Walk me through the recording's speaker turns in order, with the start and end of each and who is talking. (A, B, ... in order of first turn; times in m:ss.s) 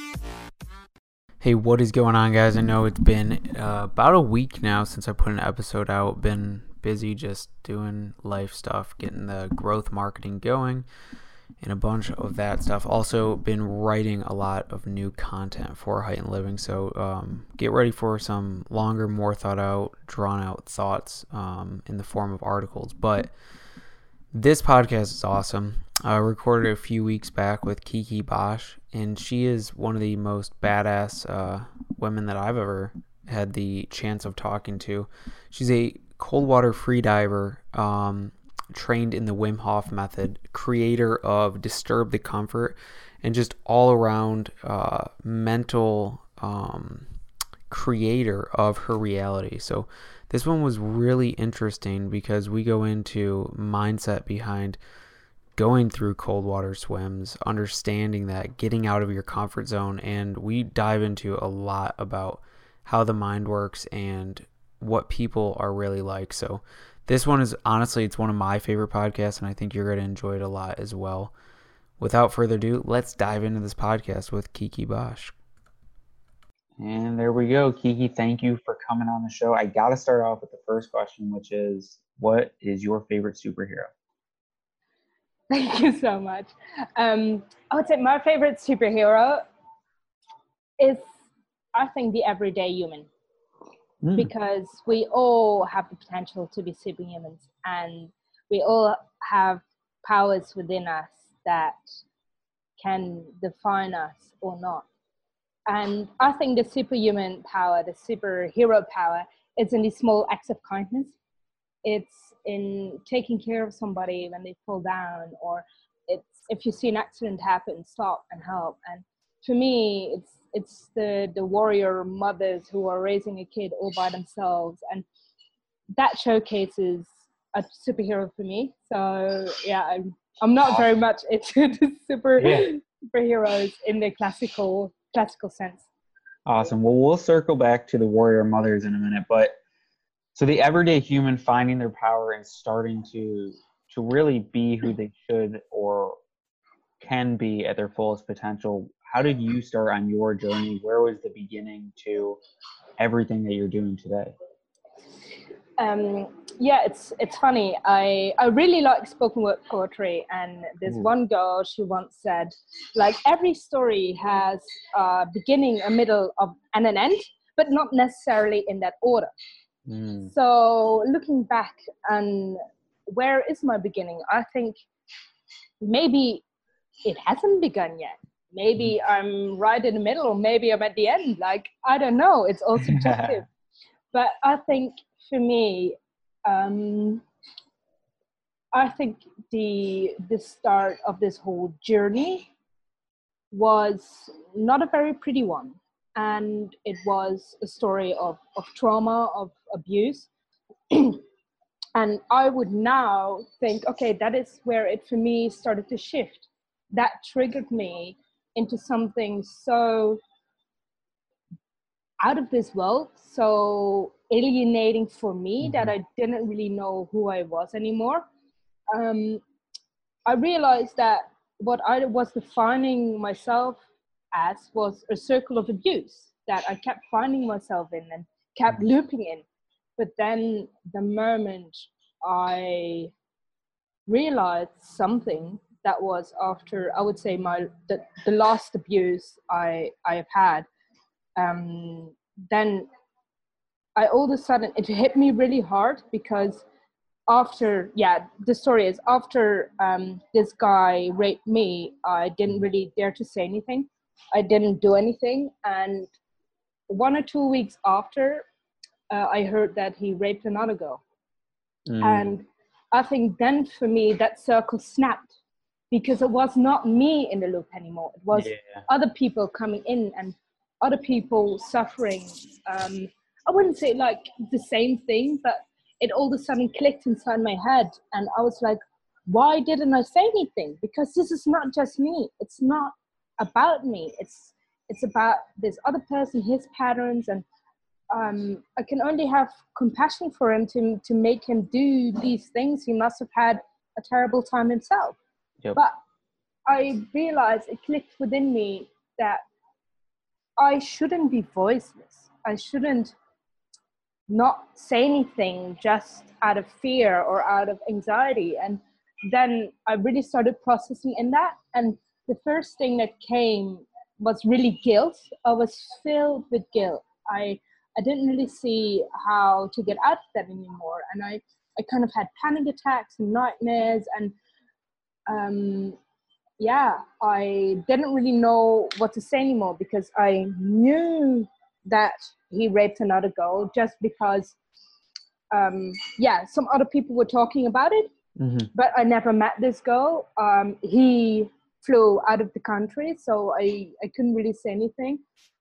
0:01.4-0:10.8 A
0:11.6-0:23.3 A
0:24.3-0:47.1 A
0:47.7-0:54.8 A
0:55.6-1:11.3 A
1:12.0-1:15.3 A
1:16.8-1:23.9 B
1:25.5-1:29.4 C
1:30.8-1:31.0 C
1:31.8-1:33.1 C
1:34.0-1:34.3 B
1:34.2-1:41.8 C
1:42.8-1:44.8 C
1:45.7-1:51.1 C
1:51.8-2:05.0 C
2:06.0-2:15.9 C
2:12.4-2:12.7 B
2:16.5-2:19.6 B
2:20.4-2:26.2 B
2:27.0-2:32.4 B
2:33.0-2:34.3 B
2:35.8-2:49.3 C
2:49.9-2:50.3 B
2:50.3-2:54.8 C
2:55.8-2:56.4 C
2:57.0-3:03.4 C
3:02.8-3:03.4 B
3:04.1-3:07.2 C
3:08.7-3:12.5 C
3:13.5-3:20.3 C
3:20.9-3:21.2 C
3:22.0-3:30.2 C
3:32.2-3:38.2 C
3:35.6-3:35.9 B
3:38.9-3:39.4 C
3:40.3-3:43.8 C
3:44.3-3:49.4 C
3:50.0-3:53.1 C
3:54.1-4:00.7 C
4:01.4-4:02.9 C
4:04.0-4:06.6 C
4:07.3-4:16.1 C
4:16.9-4:18.4 C
4:19.1-4:21.0 C
4:21.9-4:22.4 B
4:22.0-4:25.3 C
4:25.9-4:47.4 C
4:28.3-4:28.8 B
4:48.1-4:55.2 C
4:56.7-4:59.4 C
5:00.6-5:03.1 C
5:04.3-5:24.3 C
5:25.3-5:26.0 C
5:26.6-5:34.6 C
5:35.5-5:38.1 C
5:38.4-5:38.7 B
5:38.7-5:45.2 C